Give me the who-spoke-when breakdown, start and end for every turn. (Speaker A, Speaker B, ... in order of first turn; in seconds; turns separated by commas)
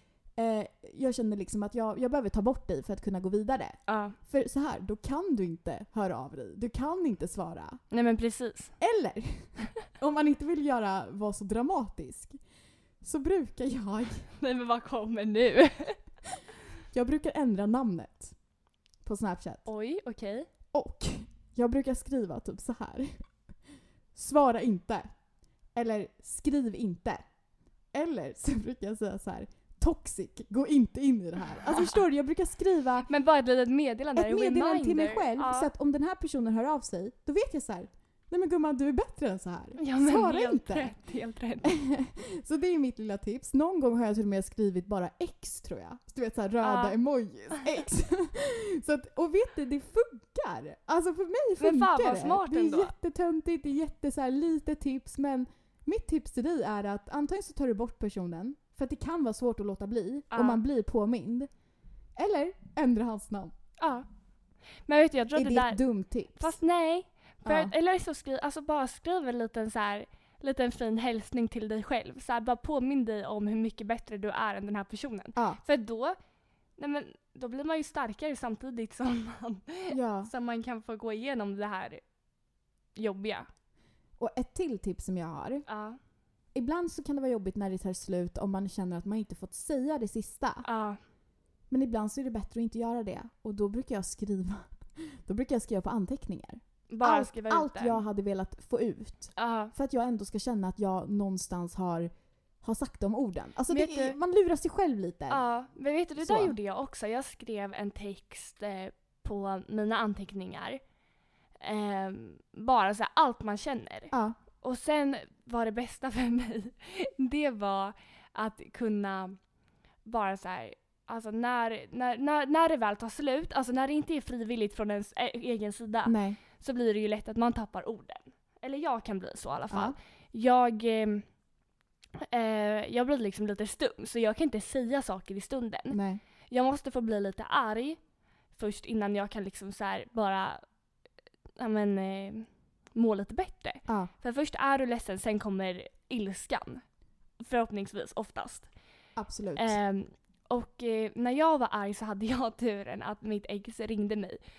Speaker A: 0.3-7.8, Speaker B: 3.9-4.2, Speaker B: 7.9-8.7, Speaker A: 8.8-12.4, Speaker A: 13.0-14.3, Speaker B: 14.4-16.0, Speaker A: 16.9-18.3, Speaker A: 19.0-19.6, Speaker B: 19.6-20.5, Speaker A: 20.7-23.3, Speaker A: 24.1-25.1, Speaker A: 25.7-27.2, Speaker A: 27.9-33.1, Speaker B: 33.1-35.7, Speaker A: 34.1-40.9, Speaker B: 39.8-41.7, Speaker A: 41.6-61.5, Speaker B: 46.6-47.0, Speaker B: 51.6-52.9, Speaker B: 60.3-60.6, Speaker A: 62.1-63.5, Speaker B: 63.8-64.0, Speaker B: 64.9-65.8, Speaker A: 65.3-66.5, Speaker B: 66.3-76.2, Speaker A: 67.4-67.7, Speaker A: 75.3-75.6, Speaker B: 76.8-82.0, Speaker A: 79.9-80.3, Speaker B: 82.9-83.5, Speaker A: 84.2-85.6, Speaker B: 85.7-86.0, Speaker A: 86.5-90.6, Speaker B: 90.6-91.0, Speaker A: 91.7-102.1, Speaker B: 96.9-98.0, Speaker B: 99.3-99.7, Speaker A: 102.6-105.4, Speaker B: 103.7-104.2, Speaker B: 105.3-110.8, Speaker A: 106.2-106.5, Speaker B: 111.6-119.4, Speaker A: 114.1-114.4, Speaker B: 120.0-131.2, Speaker A: 126.0-126.4, Speaker A: 129.7-129.9, Speaker B: 132.2-138.0, Speaker A: 135.9-136.2, Speaker B: 138.5-140.6, Speaker B: 141.6-146.8, Speaker A: 143.9-144.1, Speaker B: 147.4-148.7, Speaker A: 149.2-149.8, Speaker B: 149.6-154.4